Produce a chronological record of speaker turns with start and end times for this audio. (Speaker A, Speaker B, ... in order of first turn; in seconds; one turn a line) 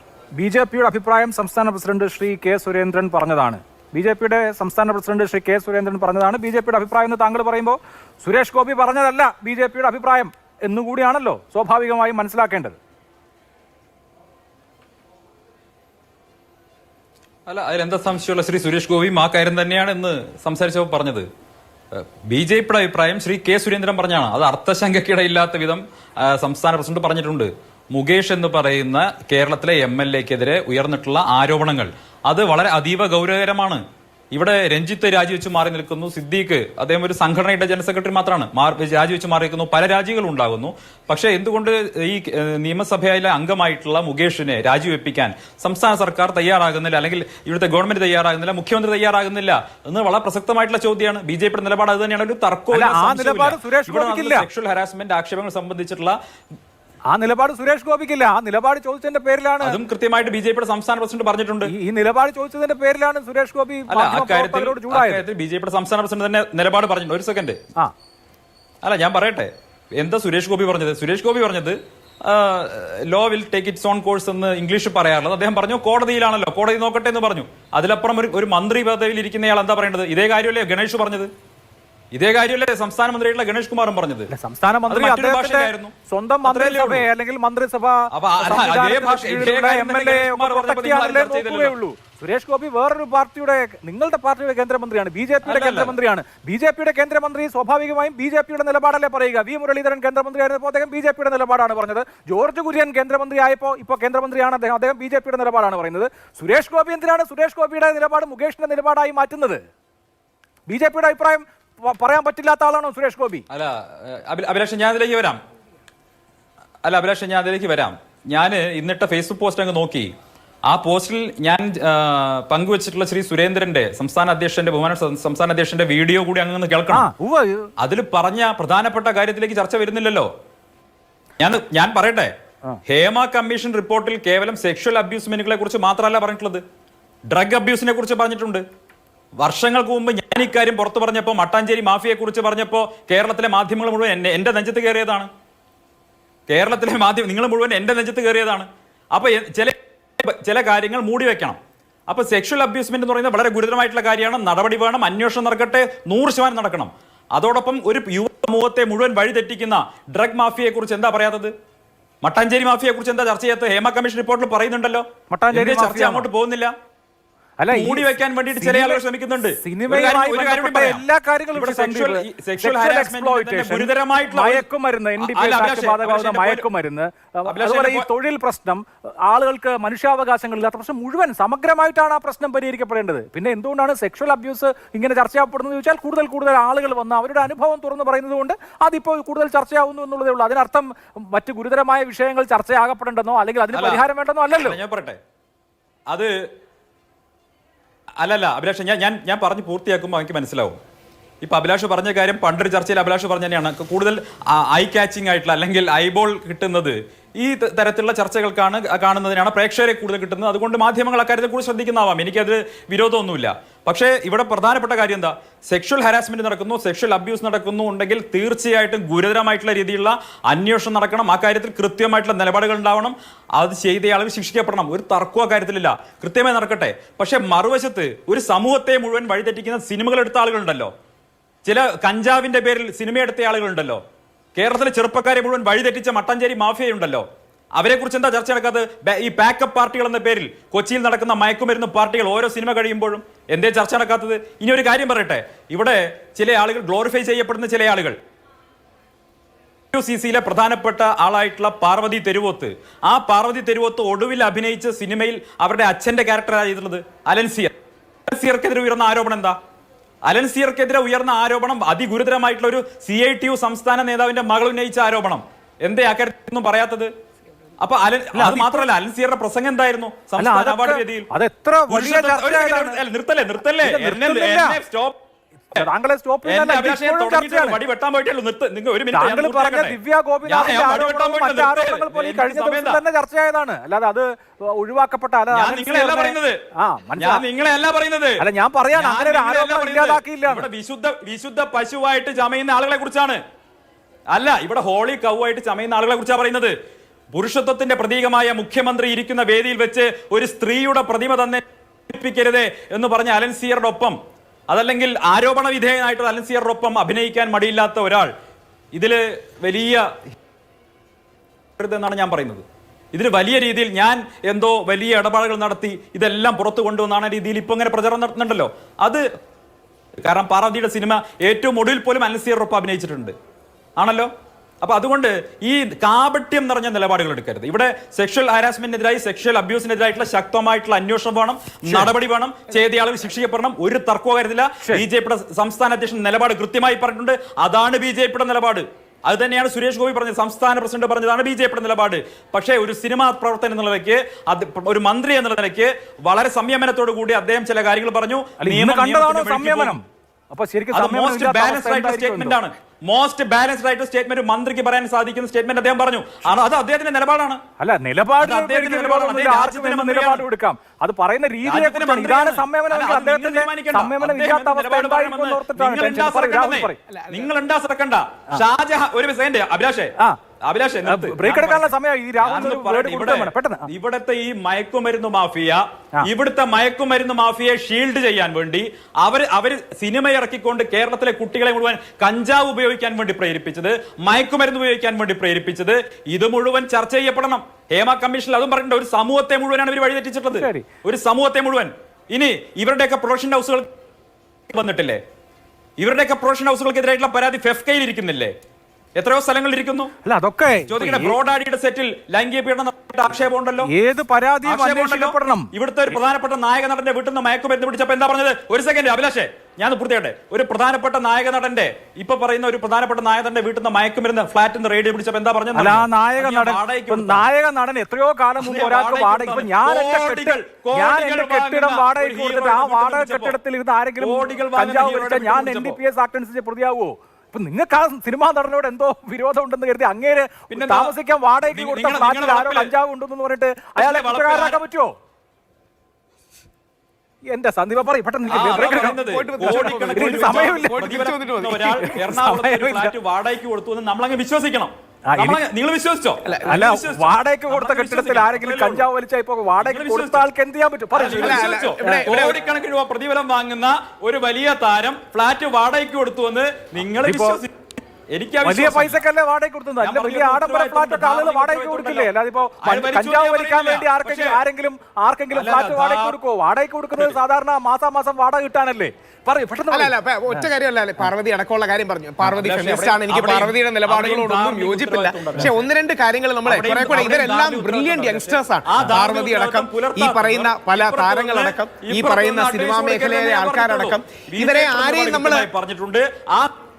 Speaker A: 0.3-12.8
Speaker B: 17.5-21.3
Speaker B: 21.9-56.1
Speaker A: 52.7-54.5
Speaker A: 57.1-59.8
Speaker B: 59.6-61.7
Speaker A: 61.6-65.2
Speaker B: 63.9-67.6
Speaker B: 68.8-81.3
Speaker B: 82.1-84.3
Speaker A: 84.3-109.6
Speaker B: 84.9-87.1
Speaker B: 88.1-91.7
Speaker B: 95.4-96.0
Speaker A: 110.7-113.4
Speaker B: 113.5-115.4
Speaker B: 116.8-120.1
Speaker B: 120.7-127.0
Speaker A: 126.9-127.7
Speaker B: 127.8-130.3
Speaker B: 131.4-132.3
Speaker B: 132.8-136.6
Speaker B: 137.3-138.6
Speaker B: 139.4-145.3
Speaker B: 146.5-161.5
Speaker B: 162.2-166.7
Speaker A: 165.3-166.3
Speaker A: 167.6-169.0
Speaker B: 167.7-174.6
Speaker A: 169.6-194.8
Speaker B: 175.2-176.6
Speaker B: 177.5-178.1
Speaker B: 193.7-195.2
Speaker B: 198.2-200.8
Speaker B: 201.4-230.9
Speaker B: 231.6-234.0
Speaker B: 234.6-237.2
Speaker B: 237.8-248.2
Speaker B: 249.9-257.7
Speaker B: 258.3-259.6
Speaker B: 260.3-267.1
Speaker B: 267.8-271.3
Speaker A: 268.3-268.9
Speaker A: 270.4-273.0
Speaker B: 271.9-275.1
Speaker A: 273.8-274.8
Speaker A: 275.7-277.8
Speaker B: 276.4-283.0
Speaker A: 279.1-287.4
Speaker B: 285.5-286.6
Speaker B: 287.2-288.4
Speaker A: 288.4-290.7
Speaker B: 288.9-293.4
Speaker B: 294.3-296.7
Speaker B: 297.3-304.2
Speaker B: 304.7-308.3
Speaker B: 308.9-310.2
Speaker B: 311.8-319.2
Speaker B: 320.2-323.3
Speaker B: 324.0-350.0
Speaker A: 348.6-352.6
Speaker B: 350.9-357.6
Speaker A: 357.8-367.0
Speaker B: 358.4-360.4
Speaker B: 361.6-370.1
Speaker C: 367.1-367.5
Speaker B: 370.6-393.9
Speaker A: 371.0-373.9
Speaker A: 390.5-390.9
Speaker B: 394.7-395.2
Speaker B: 396.0-398.5
Speaker B: 399.1-400.1
Speaker A: 400.2-401.3
Speaker B: 400.9-403.9
Speaker A: 403.8-405.7
Speaker B: 404.6-417.4
Speaker A: 415.7-435.1
Speaker B: 418.6-423.6
Speaker B: 424.2-426.0
Speaker B: 430.7-431.1
Speaker B: 431.7-432.9
Speaker B: 434.0-434.8
Speaker A: 437.5-441.0
Speaker B: 438.5-449.1
Speaker C: 438.5-442.1
Speaker A: 442.0-443.1
Speaker A: 445.3-445.6
Speaker A: 446.6-452.2
Speaker B: 449.8-450.5
Speaker B: 451.1-457.7
Speaker C: 451.4-452.6
Speaker A: 457.2-457.6
Speaker B: 458.3-459.2
Speaker A: 458.6-470.6
Speaker B: 460.0-462.3
Speaker B: 462.8-464.6
Speaker B: 465.5-466.4
Speaker C: 469.9-485.7
Speaker B: 472.4-475.9
Speaker B: 476.6-486.7